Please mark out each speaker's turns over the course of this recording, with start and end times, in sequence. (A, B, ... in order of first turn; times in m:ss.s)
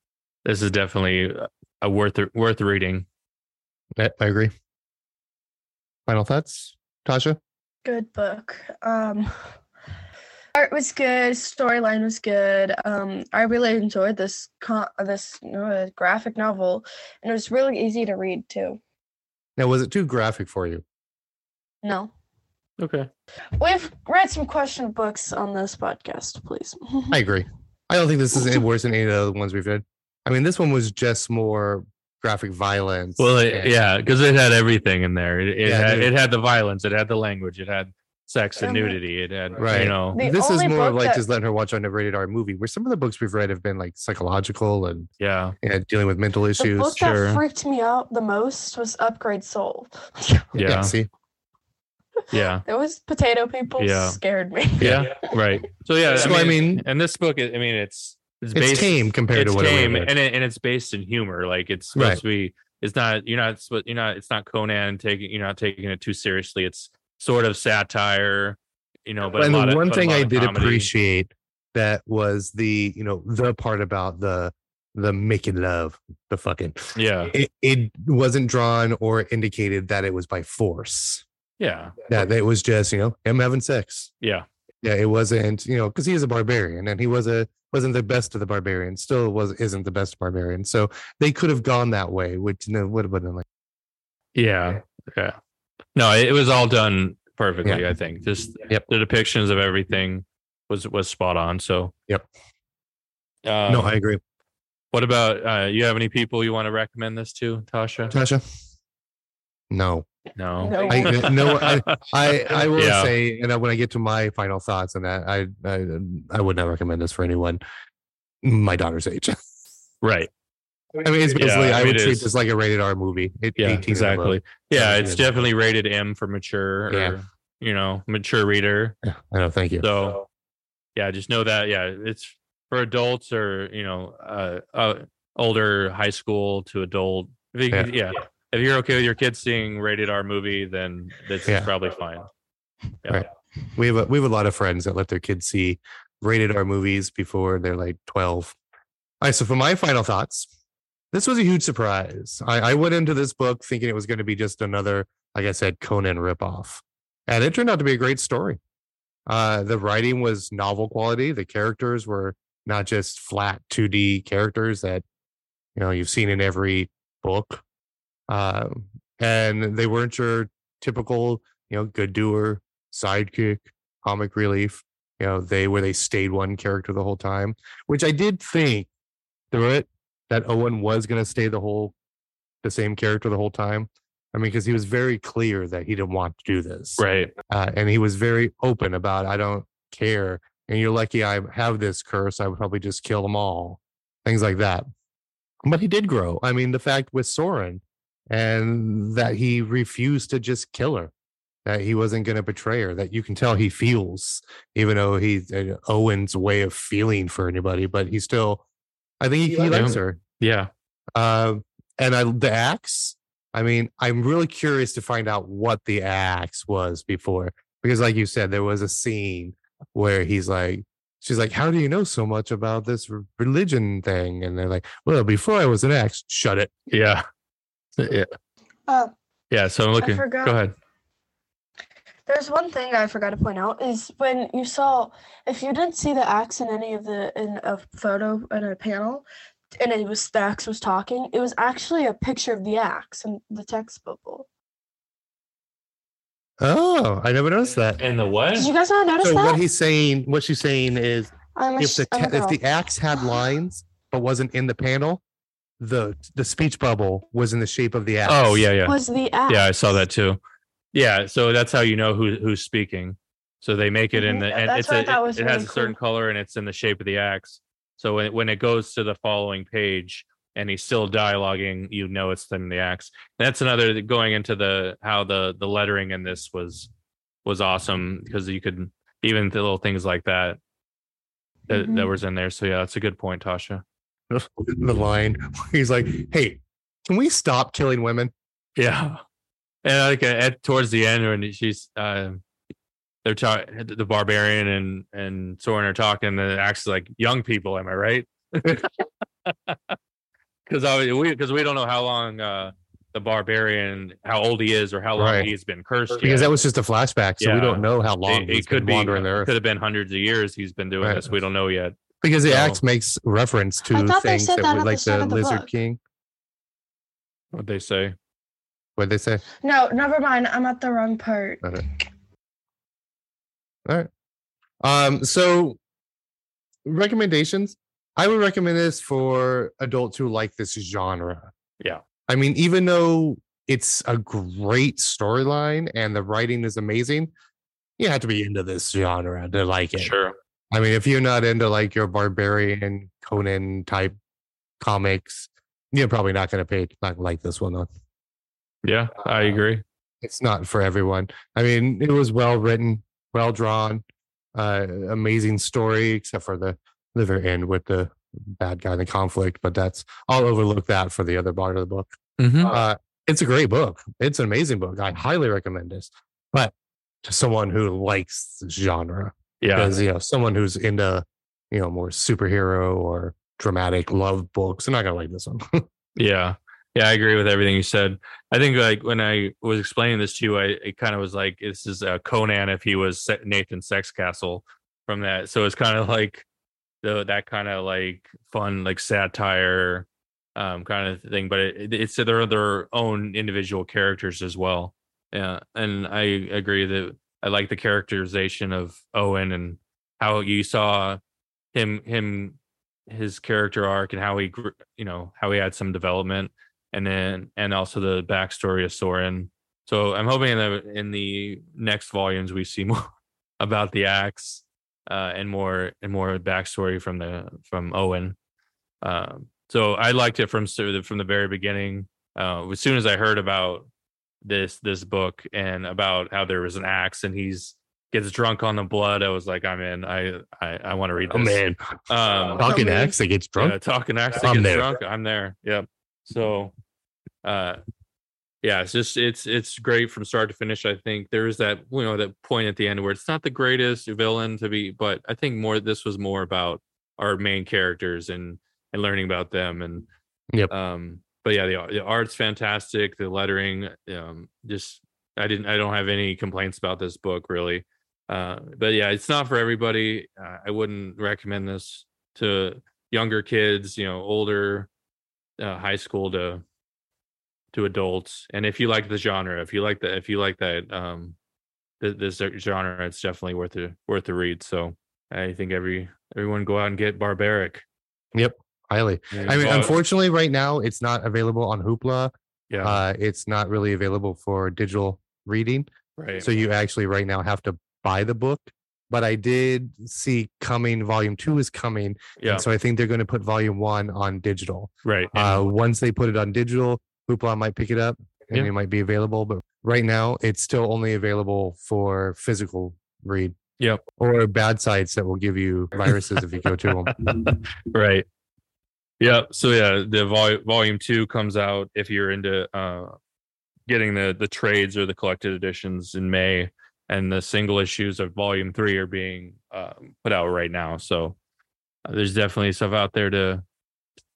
0:00.4-0:03.0 A
0:04.0-0:04.5 B
0:06.1-0:07.4 B
0:07.8-0:09.3 C
0:10.6-0:18.8 C
0:19.6-0:20.8 B
0:21.8-0:22.1 C
0:22.8-0:23.1 A
0:23.6-0:27.2 C
0:27.1-0:33.7 B
0:33.2-0:40.2 A
0:35.6-0:36.1 B
0:38.6-0:39.0 C
0:39.6-0:45.1 B
0:40.1-0:41.2 C
0:45.2-0:45.6 A
0:45.6-0:47.0 B
0:46.6-0:50.5 C
0:46.9-0:47.4 A
0:50.6-0:51.1 B
0:50.6-0:50.9 A
0:52.3-0:52.6 A
0:52.4-0:55.3 C
0:53.8-0:54.2 A
0:54.8-1:10.9 A
0:56.1-0:56.8 B
0:58.5-1:00.1 B
1:01.9-1:02.2 B
1:09.4-1:21.2 B
1:16.9-1:17.3 A
1:21.6-1:22.0 A
1:22.1-1:24.1 B
1:24.2-1:24.4 A
1:24.8-1:33.4 B
1:34.3-1:35.4 A
1:36.0-1:41.9 A
1:43.4-1:44.0 A
1:43.7-1:44.2 B
1:44.9-1:48.1 A
1:48.1-1:48.4 B
1:49.7-1:50.1 B
1:50.4-1:53.1 A
1:50.6-1:51.4 C
1:50.8-1:57.6 B
1:58.4-1:59.4 B
2:00.0-2:00.3 A
2:01.0-2:05.4 B
2:01.3-2:02.3 A
2:03.6-2:09.0 A
2:06.9-2:07.2 B
2:09.0-2:09.9 B
2:09.8-2:10.3 A
2:11.0-2:22.3 A
2:23.1-2:28.6 B
2:29.2-2:30.5 B
2:31.1-2:38.6 B
2:39.3-2:45.0 B
2:45.8-2:47.6 B
2:48.3-2:58.9 B
2:59.5-3:01.9 B
3:02.6-3:14.8 B
3:07.0-3:07.3 A
3:15.6-3:21.1 B
3:21.6-3:28.6 B
3:29.2-3:30.2 B
3:29.6-3:30.7 A
3:31.1-3:46.7 B
3:46.9-3:47.2 A
3:48.0-3:48.3 A
3:49.5-3:50.7 A
3:50.0-3:50.6 C
3:52.3-3:59.2 C
3:59.8-4:04.5 C
4:06.6-4:08.0 B
4:08.0-4:08.7 A
4:08.6-4:09.6 C
4:09.2-4:15.2 B
4:11.6-4:12.6 C
4:15.8-4:18.7 B
4:18.2-4:20.4 A
4:18.8-4:19.9 C
4:20.9-4:36.9 A
4:24.1-4:26.0 C
4:37.4-4:40.6 A
4:41.7-4:43.8 A
4:41.7-4:42.1 C
4:44.3-4:48.3 B
4:48.8-4:49.2 A
4:49.8-4:52.4 A
4:53.2-4:58.9 A
4:59.4-4:59.8 A
5:00.7-5:06.5 A
5:05.2-5:05.5 B
5:06.2-5:09.5 B
5:07.4-5:12.8 A
5:11.0-5:11.3 B
5:12.2-5:16.0 B
5:13.9-5:15.7 C
5:17.5-5:18.1 A
5:19.0-5:19.4 B
5:19.6-5:21.8 C
5:24.8-5:25.8 B
5:26.9-5:31.5 B
5:32.3-5:37.3 B
5:38.0-5:40.1 B
5:40.0-5:40.3 A
5:40.7-5:44.1 B
5:44.8-5:47.9 B
5:48.8-5:49.8 A
5:50.2-5:54.0 B
5:54.6-6:02.1 B
6:02.4-6:02.8 A
6:02.6-6:15.8 B
6:09.6-6:09.9 A
6:16.2-6:26.4 A
6:27.0-6:41.2 A
6:41.7-6:42.6 A
6:43.1-6:58.4 A
6:59.0-7:03.9 A
7:04.4-7:12.6 A
7:11.3-7:11.8 B
7:12.6-7:13.8 B
7:12.6-7:13.2 C
7:13.6-7:16.7 A
7:14.4-7:14.9 B
7:17.4-7:17.8 A
7:18.6-7:30.1 A
7:30.7-7:44.9 A
7:45.6-7:46.6 A
7:47.7-7:51.4 A
7:52.0-7:57.8 A
7:58.3-8:02.3 B
7:59.3-8:00.0 A
8:02.7-8:03.0 A
8:02.8-8:23.6 B
8:06.2-8:06.5 A
8:12.4-8:12.6 A
8:15.0-8:15.7 A
8:24.2-8:27.5 B
8:26.0-8:28.2 A
8:29.2-8:33.2 A
8:33.9-8:41.4 A
8:42.0-8:43.6 A